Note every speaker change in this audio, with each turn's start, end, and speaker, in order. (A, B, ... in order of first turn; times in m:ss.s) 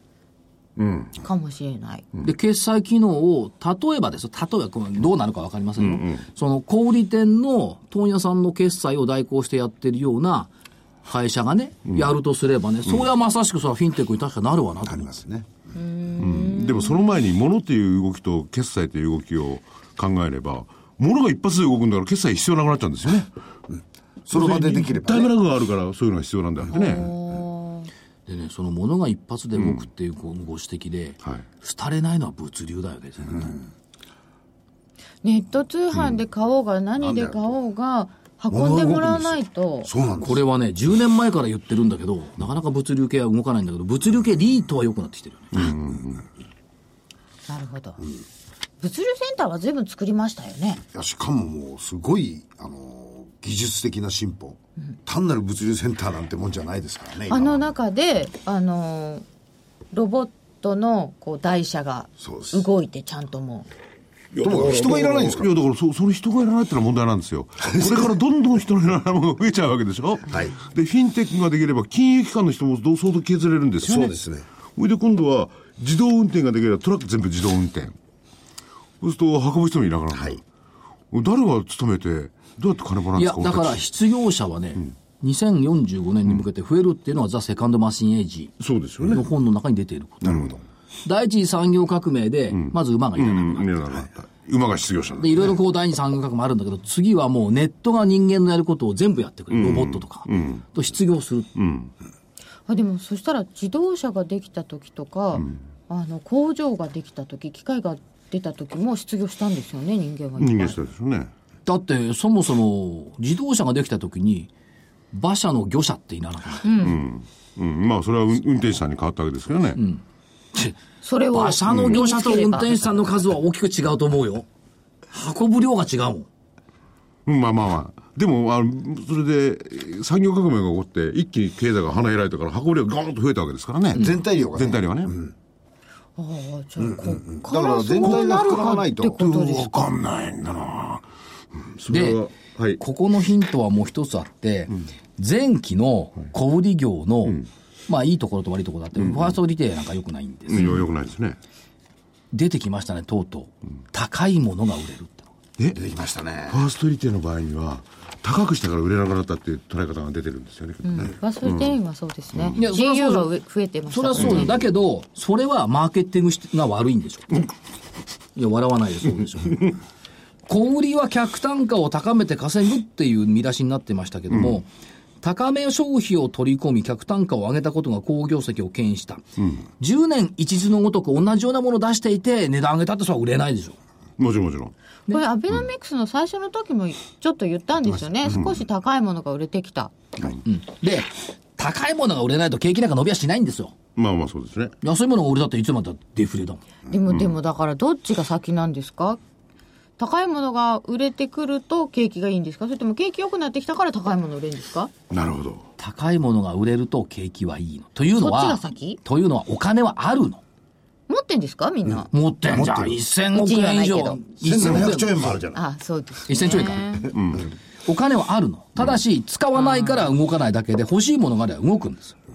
0:00.8-0:01.1 A
0:01.2-0:02.1 B
0:02.2-0:10.5 C
0:05.8-0:06.2 A
0:11.0-0:15.1 C
0:14.8-0:15.5 D
0:15.8-0:17.0 B
0:16.2-0:23.3 A
0:24.3-0:25.4 D
0:24.3-0:27.1 A
0:26.7-0:27.9 B
0:28.3-0:33.6 C
0:29.6-0:29.8 A
0:35.2-0:39.9 B
0:37.0-0:37.3 D
0:38.5-0:40.4 D
0:40.2-0:45.7 C
0:45.5-0:46.2 A
0:47.5-0:48.0 B
0:48.8-0:50.8 B
0:50.9-0:57.7 D
0:57.3-0:59.2 B
0:59.9-1:03.7 B
1:02.2-1:02.7 D
1:04.3-1:14.1 A
1:04.4-1:05.5 D
1:07.7-1:08.1 D
1:10.3-1:10.6 D
1:13.8-1:14.4 D
1:14.8-1:18.0 A
1:19.0-1:20.4 A
1:20.1-1:20.4 D
1:21.1-1:23.8 A
1:23.2-1:30.5 C
1:28.6-1:29.3 A
1:30.2-1:30.6 A
1:31.0-1:33.7 C
1:32.5-1:35.5 A
1:35.2-1:41.5 C
1:39.5-1:40.6 A
1:41.6-1:41.9 A
1:42.7-1:50.8 B
1:50.4-1:51.3 A
1:51.7-1:54.5 C
1:55.1-1:56.8 C
1:56.6-1:57.0 B
1:56.8-1:59.8 A
1:59.8-2:00.0 C
2:00.5-2:00.8 C
2:01.0-2:03.0 B
2:01.3-2:04.4 C
2:01.7-2:02.0 A
2:05.1-2:06.3 C
2:07.3-2:15.1 A
2:14.0-2:15.3 D
2:16.2-2:19.9 B
2:16.8-2:19.3 D
2:18.0-2:18.6 A
2:19.2-2:21.0 A
2:21.6-2:22.8 A
2:21.9-2:22.2 C
2:22.8-2:30.8 C
2:29.0-2:29.4 A
2:30.5-2:31.4 A
2:32.3-2:35.3 C
2:35.8-2:36.6 D
2:36.5-2:41.8 A
2:40.8-2:44.5 B
2:42.6-2:43.3 C
2:43.9-2:47.4 C
2:44.2-2:44.5 A
2:48.4-2:49.7 C
2:50.5-2:54.7 C
2:55.2-2:59.2 C
2:59.8-3:03.8 C
3:04.2-3:04.8 A
3:05.1-3:10.4 B
3:08.2-3:08.6 A
3:10.4-3:13.8 C
3:14.0-3:14.8 A
3:14.8-3:16.6 C
3:16.9-3:19.2 B
3:17.1-3:17.3 A
3:20.0-3:24.9 B
3:25.1-3:25.6 A
3:25.8-3:30.4 C
3:28.1-3:29.0 B
3:31.1-3:32.1 B
3:32.1-3:35.2 C
3:32.5-3:33.0 D
3:33.3-3:34.2 B
3:34.4-3:35.6 D
3:35.5-3:37.1 B
3:36.3-3:37.0 C
3:37.1-3:37.5 A
3:37.9-3:42.2 C
3:39.6-3:40.1 B